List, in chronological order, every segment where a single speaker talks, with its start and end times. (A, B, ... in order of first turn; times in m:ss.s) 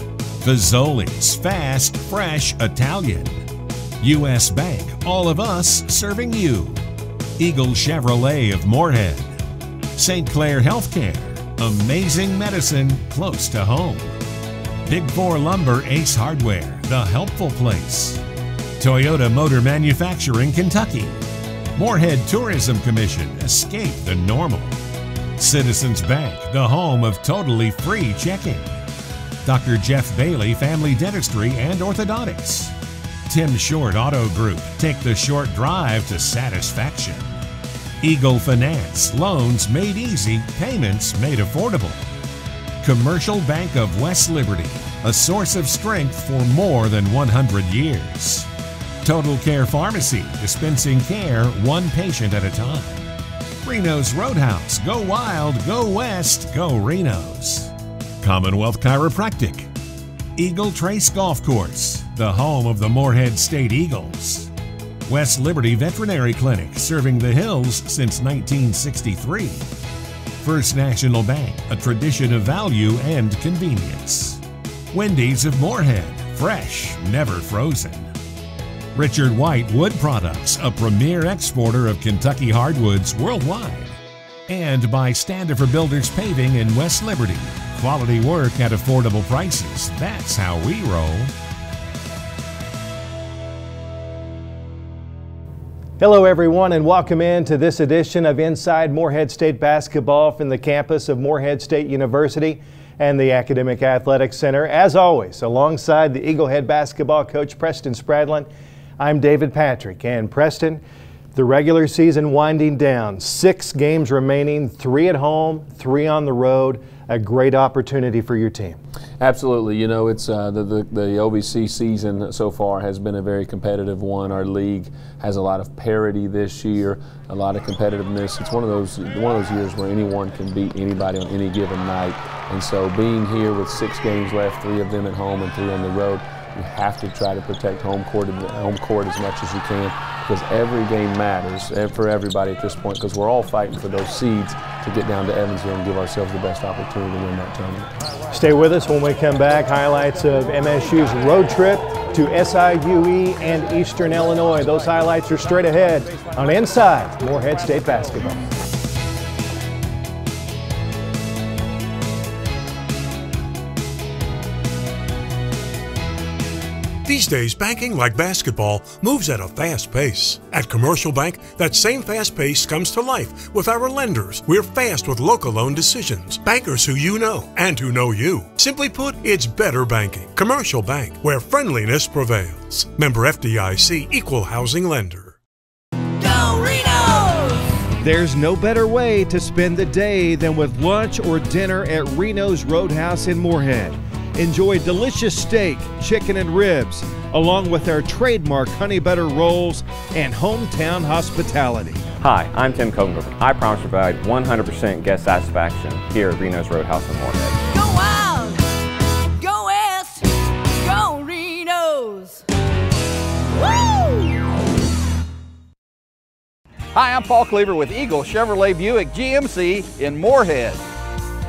0:00.4-0:03.4 A
0:04.0-0:06.8 A
0:07.4-0:09.3 A
0:10.0-0:14.1 A
0:14.8-0:18.2 A
0:18.8-0:24.8 A
0:25.4-0:28.8 A
0:29.4-0:32.7 A
0:33.3-0:37.4 A
0:38.0-0:42.1 A
0:42.8-0:48.5 A
0:49.0-0:53.1 A
0:53.6-0:59.7 A
1:00.4-1:04.5 A
1:05.0-1:09.6 A
1:10.4-1:18.1 A
1:18.9-1:24.0 A
1:24.5-1:31.3 A
1:36.0-1:48.5 B
1:49.0-1:50.8 B
1:51.3-1:58.8 B
1:59.2-2:27.9 C
2:28.3-2:38.4 B
2:47.0-3:05.4 D
3:06.2-3:07.6 E
3:08.0-3:22.0 B
3:22.2-3:27.6 F
3:27.7-3:28.6 E
3:29.4-3:32.4 E
3:33.6-3:34.2 E
3:36.9-3:40.8 G